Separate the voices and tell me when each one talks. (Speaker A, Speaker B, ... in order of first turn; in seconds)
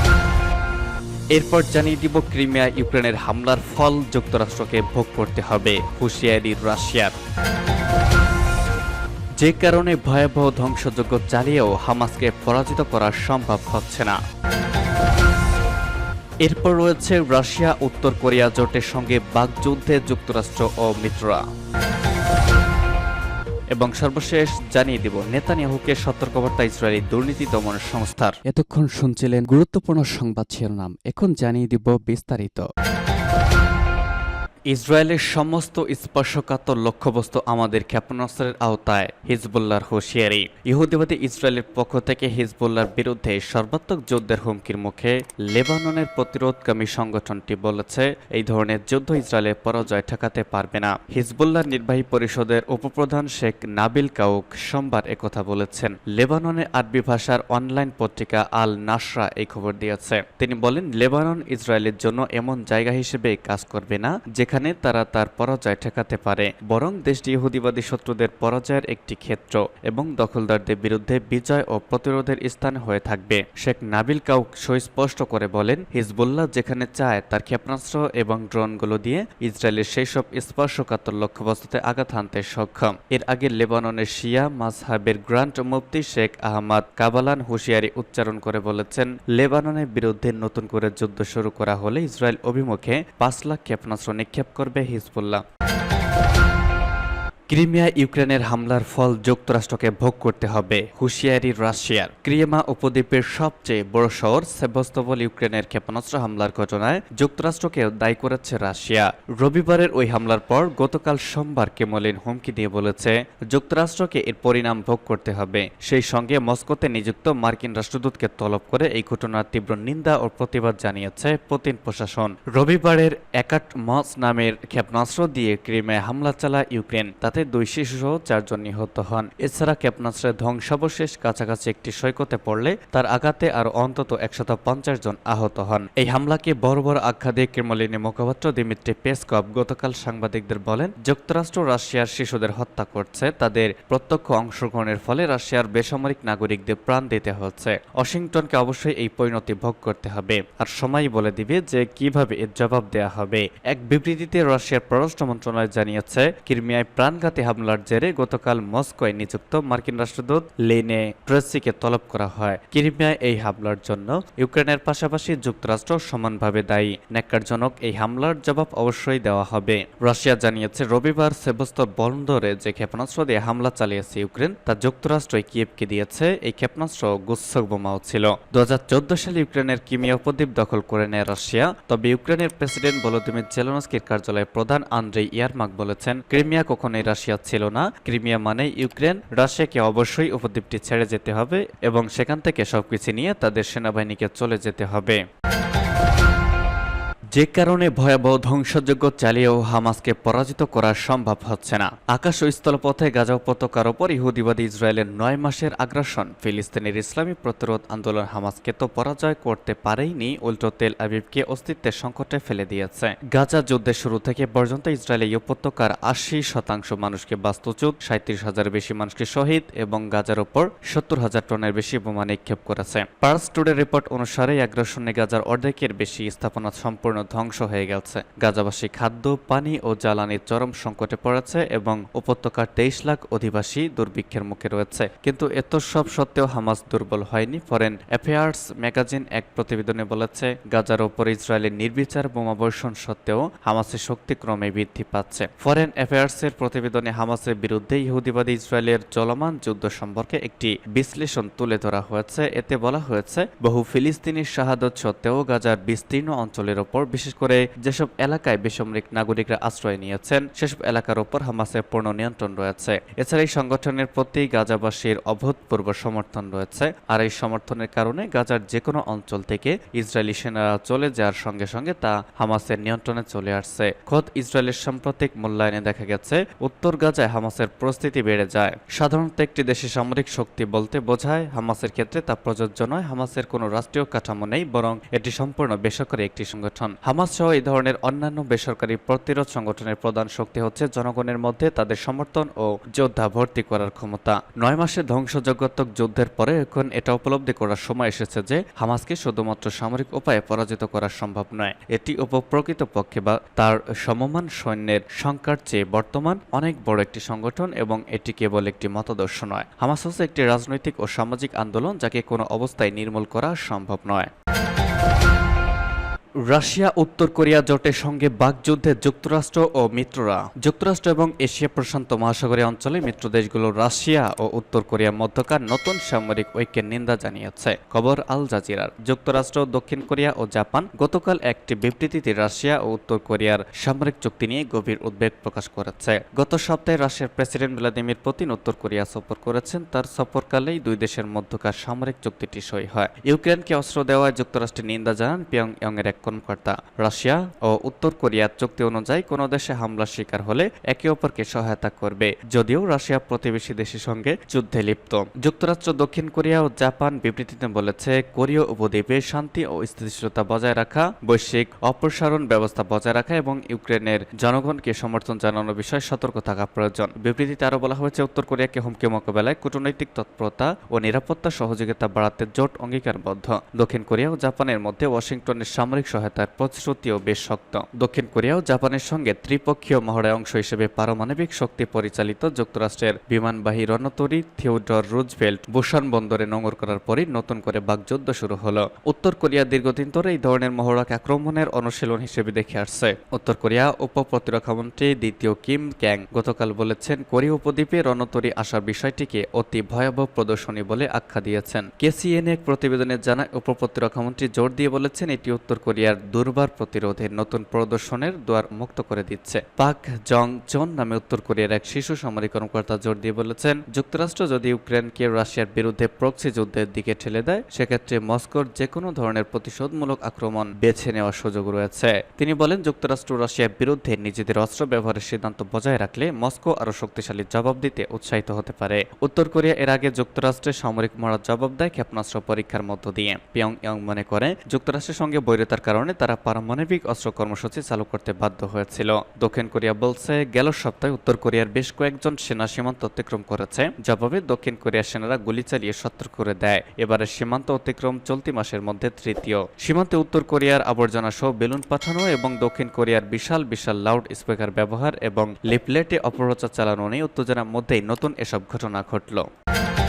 Speaker A: 1.3-7.1, 9.4-14.2, 16.4-21.4, 23.7-32.7, 34.7-95.4, 97.5-195.2, 197.3-314.3, 316.4-459.5